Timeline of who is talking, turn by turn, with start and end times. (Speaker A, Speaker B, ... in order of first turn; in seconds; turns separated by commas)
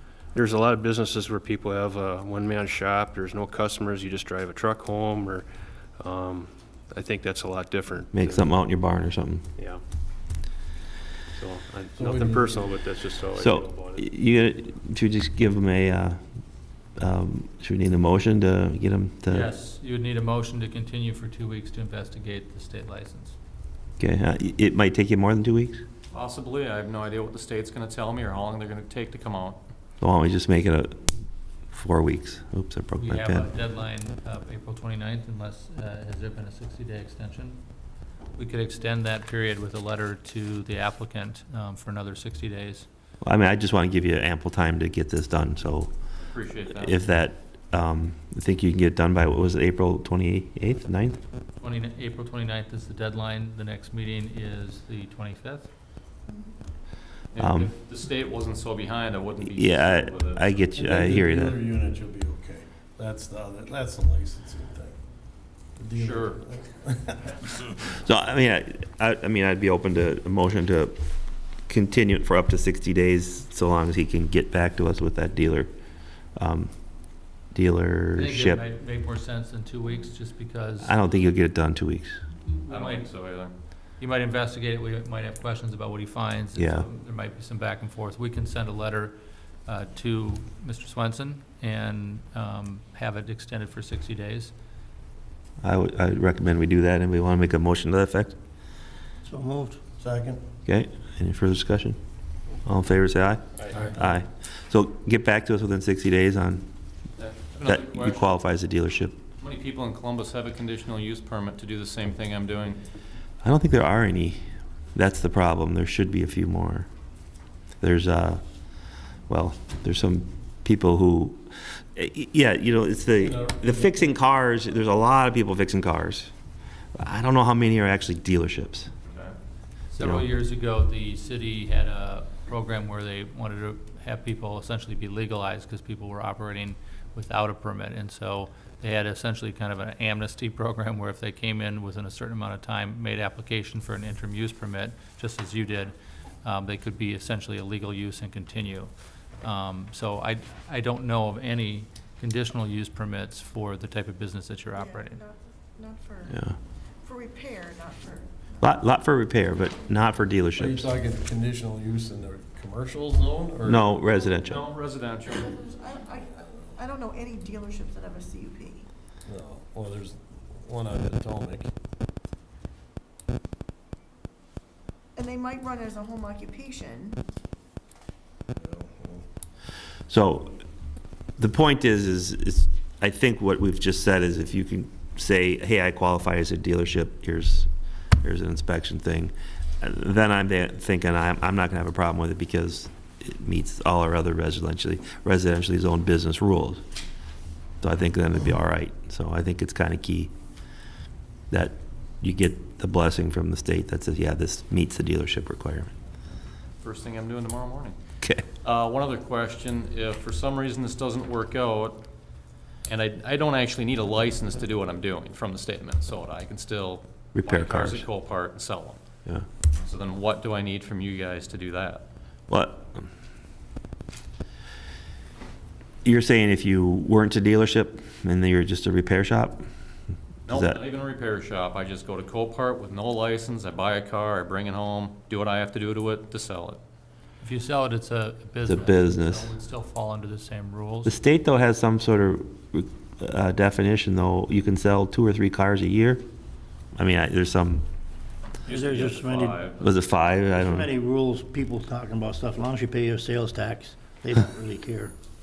Speaker A: 0.3-5.5, Speaker A: 6.0-8.5, Speaker B: 8.1-9.4, Speaker A: 11.3-14.1, Speaker C: 11.9-12.8, Speaker B: 13.3-16.2, Speaker B: 17.0-19.5, Speaker D: 19.3-23.4, Speaker B: 24.0-25.8, Speaker E: 26.1-29.6, Speaker B: 30.0-31.1, Speaker B: 31.7-33.5, Speaker D: 33.0-37.6, Speaker D: 38.4-42.9, Speaker B: 43.2-45.9, Speaker E: 46.2-47.0, Speaker B: 46.7-51.2, Speaker D: 51.6-55.7, Speaker F: 56.3-56.6, Speaker E: 57.3-60.6, Speaker B: 57.4-57.7, Speaker B: 59.5-61.6, Speaker C: 60.7-67.8, Speaker E: 65.9-66.4, Speaker B: 67.9-71.0, Speaker B: 71.7-75.7, Speaker B: 76.3-76.7, Speaker B: 77.5-78.6, Speaker D: 78.2-81.0, Speaker B: 80.8-82.2, Speaker D: 82.4-83.1, Speaker E: 82.7-83.5, Speaker D: 84.0-94.5, Speaker B: 86.6-86.9, Speaker B: 95.6-98.4, Speaker G: 99.2-99.8, Speaker C: 100.0-100.4, Speaker B: 100.7-102.0, Speaker B: 102.6-106.7, Speaker E: 107.2-108.4, Speaker B: 107.7-109.2, Speaker E: 109.4-112.8, Speaker B: 113.4-114.4, Speaker B: 114.9-116.9, Speaker B: 117.8-118.4, Speaker B: 119.3-121.4, Speaker B: 122.0-126.3, Speaker C: 123.2-124.3, Speaker B: 127.0-128.9, Speaker E: 129.1-129.4, Speaker D: 129.9-155.2, Speaker B: 130.0-130.3, Speaker F: 154.7-158.8, Speaker B: 156.3-156.6, Speaker B: 158.6-160.9, Speaker C: 160.6-164.3, Speaker B: 163.7-164.7, Speaker E: 164.3-165.6, Speaker F: 165.3-168.9, Speaker C: 166.4-166.8, Speaker C: 169.2-171.7, Speaker F: 175.2-177.2, Speaker C: 178.5-179.2, Speaker B: 180.1-180.6, Speaker B: 181.4-187.7, Speaker B: 188.2-196.8, Speaker B: 197.8-200.3, Speaker B: 201.5-205.9, Speaker E: 206.8-207.9, Speaker B: 208.2-208.5, Speaker E: 208.6-212.1, Speaker E: 212.9-219.0, Speaker B: 217.3-218.1, Speaker E: 219.8-222.1, Speaker B: 222.5-223.1, Speaker B: 226.0-229.7, Speaker E: 230.5-236.8, Speaker B: 230.5-230.8, Speaker D: 237.4-241.2, Speaker B: 238.7-239.5, Speaker B: 241.1-246.2, Speaker B: 247.0-247.8, Speaker E: 248.7-249.8, Speaker G: 248.7-249.7, Speaker B: 249.8-250.9, Speaker G: 250.5-255.1